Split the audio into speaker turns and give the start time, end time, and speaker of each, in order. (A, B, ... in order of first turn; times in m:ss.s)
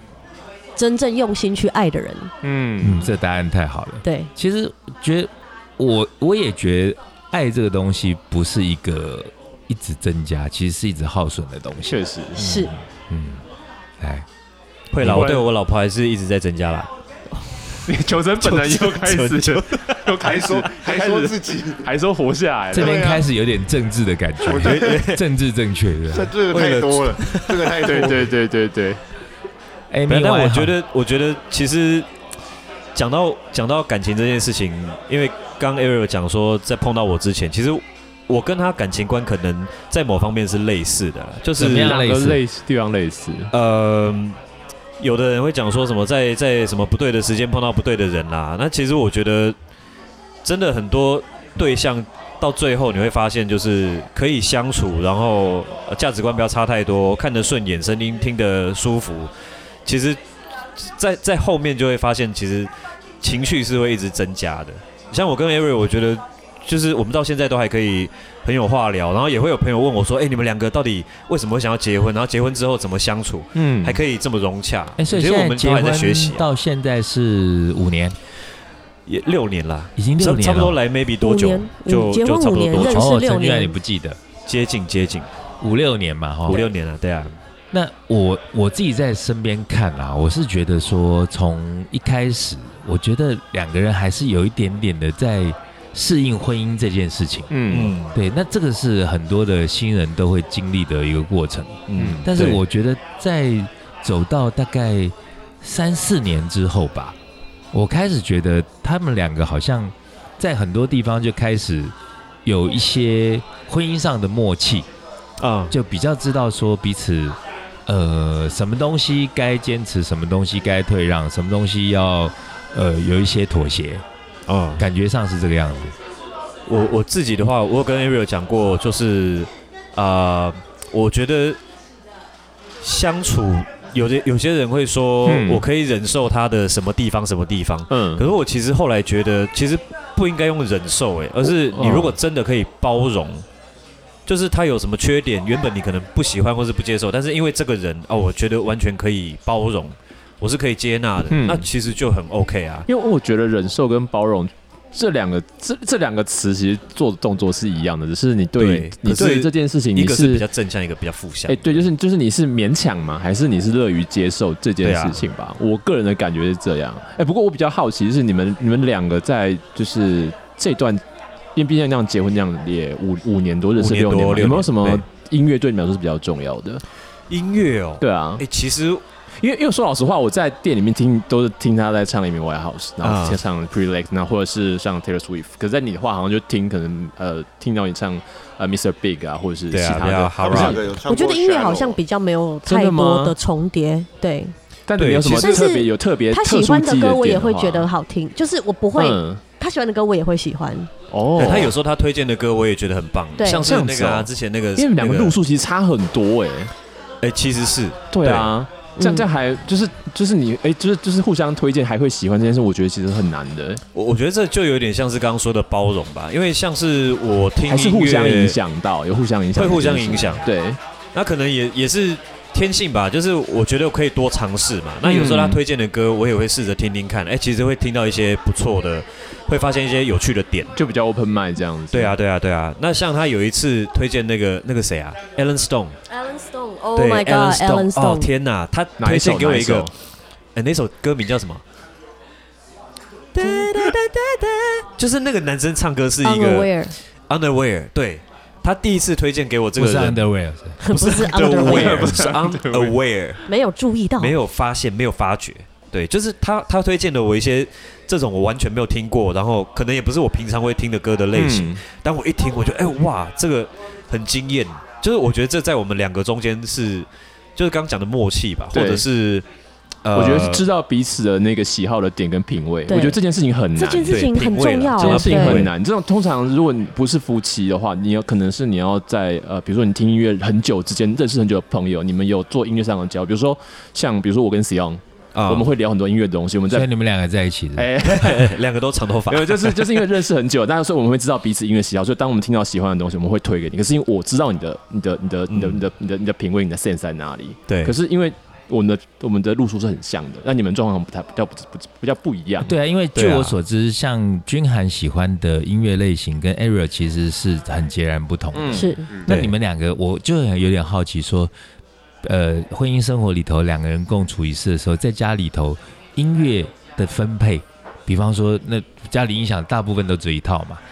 0:00.8-0:02.3 A
0:02.4-0:03.1 B
0:02.8-0:12.0 C
0:04.0-0:04.3 A
0:11.9-0:12.7 B
0:12.4-0:12.7 A
0:13.1-0:13.4 C
0:14.0-0:14.3 C
0:14.9-0:16.9 D
0:15.0-0:15.3 C
0:15.0-0:15.5 B
0:17.9-0:23.1 B
0:18.4-0:20.0 D
0:20.2-0:21.9 E
0:22.7-0:26.3 C
0:22.7-0:23.2 E
0:24.5-0:25.2 D
0:24.5-0:25.0 E
0:26.1-0:28.3 E
0:26.5-0:28.1 D
0:27.8-0:29.0 B
0:29.9-0:30.8 C
0:30.1-0:32.1 D
0:33.0-0:42.0 D
0:41.6-0:42.4 C
0:41.6-0:43.5 B
0:43.5-0:44.4 D
0:45.0-0:49.6 D
0:50.4-0:59.3 D
0:59.9-1:00.2 D
1:00.8-1:02.7 D
1:03.2-1:16.5 D
1:15.0-1:18.2 C
1:19.1-1:23.1 D
1:20.0-1:20.8 C
1:21.2-1:23.8 A
1:22.8-1:24.2 C
1:24.5-1:25.3 D
1:25.6-1:26.6 C
1:26.5-1:27.4 D
1:27.7-1:37.5 C
1:37.5-1:37.9 B
1:37.7-1:38.2 D
1:38.1-1:47.2 C
1:41.9-1:42.6 D
1:41.9-1:42.3 B
1:47.7-1:51.9 C
1:52.4-1:54.9 C
1:55.4-1:55.7 D
1:55.7-2:04.0 C
2:04.5-2:04.8 D
2:04.8-2:06.0 C
2:06.7-2:11.6 D
2:12.8-2:23.5 D
2:17.9-2:18.2 B
2:21.6-2:22.2 B
2:24.3-2:32.9 D
2:31.3-2:31.7 B
2:32.9-2:40.5 B
2:38.6-2:41.9 D
2:41.5-2:51.0 B
2:44.8-2:45.2 D
2:51.6-2:56.8 B
2:53.8-2:55.0 D
2:57.3-2:59.0 D
2:58.0-2:58.4 B
2:59.4-3:10.9 B
3:03.0-3:03.4 D
3:09.7-3:10.9 D
3:10.4-3:12.0 E
3:11.0-3:14.5 A
3:12.7-3:13.4 B
3:14.9-3:17.9 B
3:15.0-3:15.6 D
3:15.3-3:20.9 A
3:18.9-3:19.4 B
3:21.1-3:21.8 B
3:21.4-3:25.4 D
3:23.4-3:23.7 A
3:23.6-3:26.7 B
3:27.2-3:28.6 D
3:28.1-3:33.8 B
3:29.0-3:29.3 A
3:33.9-3:38.6 D
3:37.7-3:40.8 B
3:39.5-3:40.5 D
3:41.1-3:50.7 D
3:45.0-3:45.6 B
3:50.8-3:52.2 B
3:51.9-3:56.0 D
3:56.1-3:58.3 A
3:57.0-3:59.9 D
3:59.0-3:59.9 B
4:00.6-4:01.6 D
4:03.3-4:10.2 D
4:06.2-4:07.0 A
4:09.8-4:10.8 C
4:10.8-4:12.2 A
4:10.9-4:13.5 D
4:11.3-4:13.0 B
4:13.5-4:14.4 A
4:14.2-4:29.5 D
4:21.3-4:21.8 B
4:28.7-4:29.1 B
4:30.0-4:30.6 D
4:30.1-4:46.9 B
4:32.9-4:33.2 A
4:33.8-4:35.7 A
4:34.1-4:35.7 D
4:45.3-4:45.7 D
4:46.7-4:47.9 C
4:47.8-4:48.6 B
4:48.0-4:50.0 D
4:49.3-5:02.7 B
4:55.5-4:55.8 D
4:57.7-4:58.0 D
5:02.6-5:11.5 C
5:03.2-5:03.6 D
5:08.5-5:08.9 B
5:08.7-5:09.1 A
5:09.1-5:09.4 E
5:12.2-5:20.8 C